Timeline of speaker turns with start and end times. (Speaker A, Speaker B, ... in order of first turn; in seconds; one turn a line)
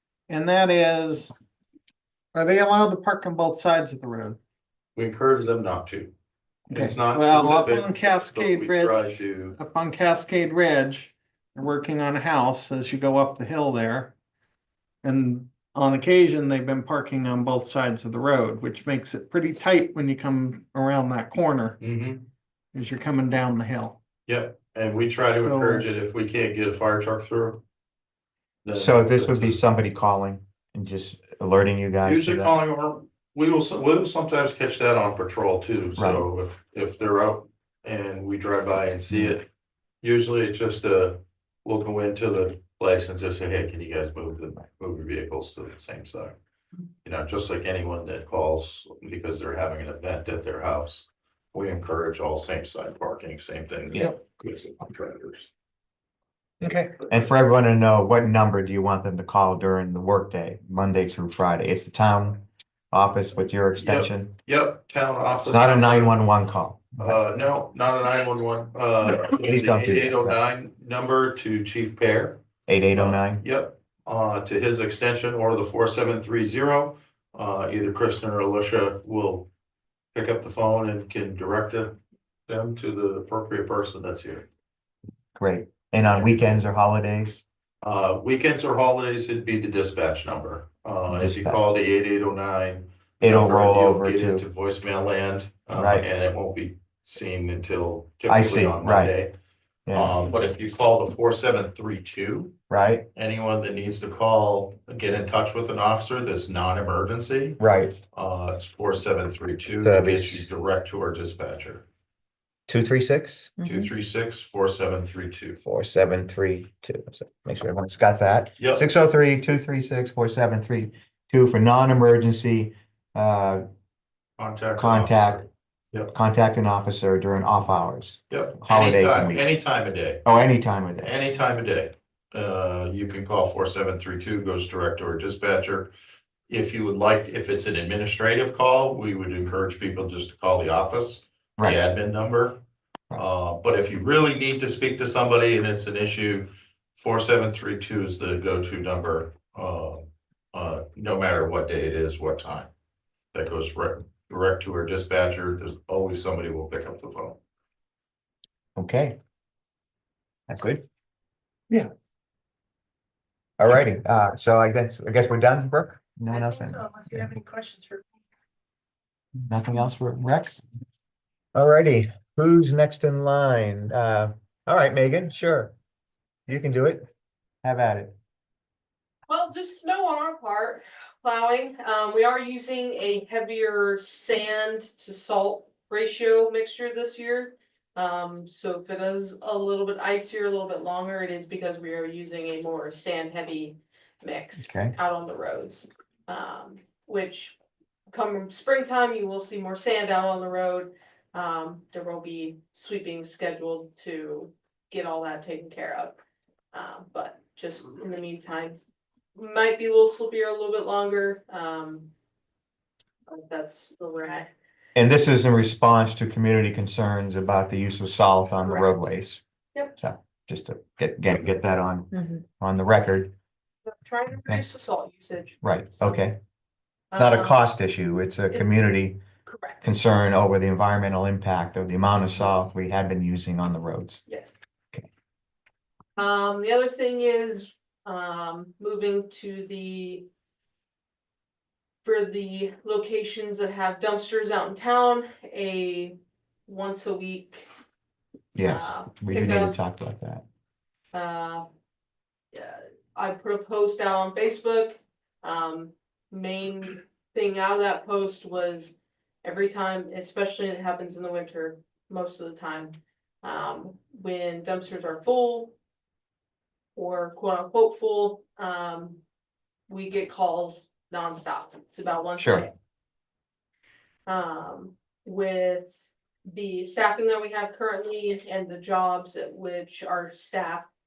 Speaker A: 0.3-1.3
Speaker A: 2.3-4.4
Speaker B: 5.0-6.1
Speaker A: 6.7-8.9
Speaker B: 6.7-9.6
Speaker A: 9.6-14.1
Speaker A: 15.0-21.8
Speaker B: 21.8-22.3
Speaker A: 22.7-24.0
Speaker B: 24.3-27.6
Speaker A: 25.4-25.9
Speaker B: 28.6-29.6
Speaker C: 28.7-32.5
Speaker B: 32.0-39.5
Speaker C: 36.0-36.2
Speaker C: 39.1-39.4
Speaker B: 40.0-46.4
Speaker B: 47.0-55.5
Speaker A: 56.6-56.9
Speaker C: 57.1-64.3
Speaker B: 63.8-66.2
Speaker C: 65.5-67.2
Speaker B: 67.0-72.4
Speaker C: 69.2-70.4
Speaker C: 72.7-73.4
Speaker B: 73.0-79.5
Speaker B: 80.1-82.0
Speaker B: 82.5-84.5
Speaker C: 85.3-87.4
Speaker B: 86.0-86.5
Speaker B: 87.8-99.3
Speaker C: 91.1-91.7
Speaker C: 93.2-94.5
Speaker C: 95.7-96.1
Speaker C: 98.3-99.2
Speaker C: 99.9-100.2
Speaker B: 99.9-102.5
Speaker C: 102.7-103.1
Speaker B: 103.1-107.6
Speaker C: 107.6-108.0
Speaker B: 108.1-111.8
Speaker C: 109.8-110.5
Speaker C: 112.7-113.6
Speaker B: 113.6-115.6
Speaker C: 115.7-123.6
Speaker B: 118.6-118.8
Speaker B: 124.4-126.1
Speaker C: 124.8-125.4
Speaker C: 126.1-129.5
Speaker B: 128.3-130.2
Speaker C: 130.2-131.1
Speaker B: 131.0-135.9
Speaker B: 136.5-142.6
Speaker B: 143.1-152.7
Speaker B: 153.3-157.4
Speaker C: 158.8-159.2
Speaker C: 160.5-160.8
Speaker C: 163.6-167.3
Speaker A: 167.4-167.9
Speaker C: 169.4-170.6
Speaker C: 171.6-175.7
Speaker C: 176.5-177.1
Speaker C: 177.6-178.2
Speaker D: 179.3-197.6
Speaker C: 194.6-195.0
Speaker D: 198.1-206.2
Speaker D: 206.7-208.8
Speaker D: 209.3-212.1
Speaker D: 213.3-214.5
Speaker C: 214.9-219.4
Speaker D: 218.6-219.0
Speaker C: 220.0-223.3
Speaker D: 223.9-226.2
Speaker C: 225.6-226.4
Speaker D: 227.1-227.6
Speaker C: 227.2-229.2
Speaker D: 229.5-229.8
Speaker C: 229.8-234.2
Speaker D: 234.3-234.5
Speaker D: 236.2-240.3
Speaker D: 242.0-246.2
Speaker D: 246.7-247.7
Speaker C: 248.6-250.4
Speaker D: 248.6-249.7
Speaker D: 251.1-251.7
Speaker D: 252.5-265.7
Speaker D: 266.9-269.2
Speaker D: 269.9-272.7
Speaker C: 272.4-272.7
Speaker D: 274.3-280.9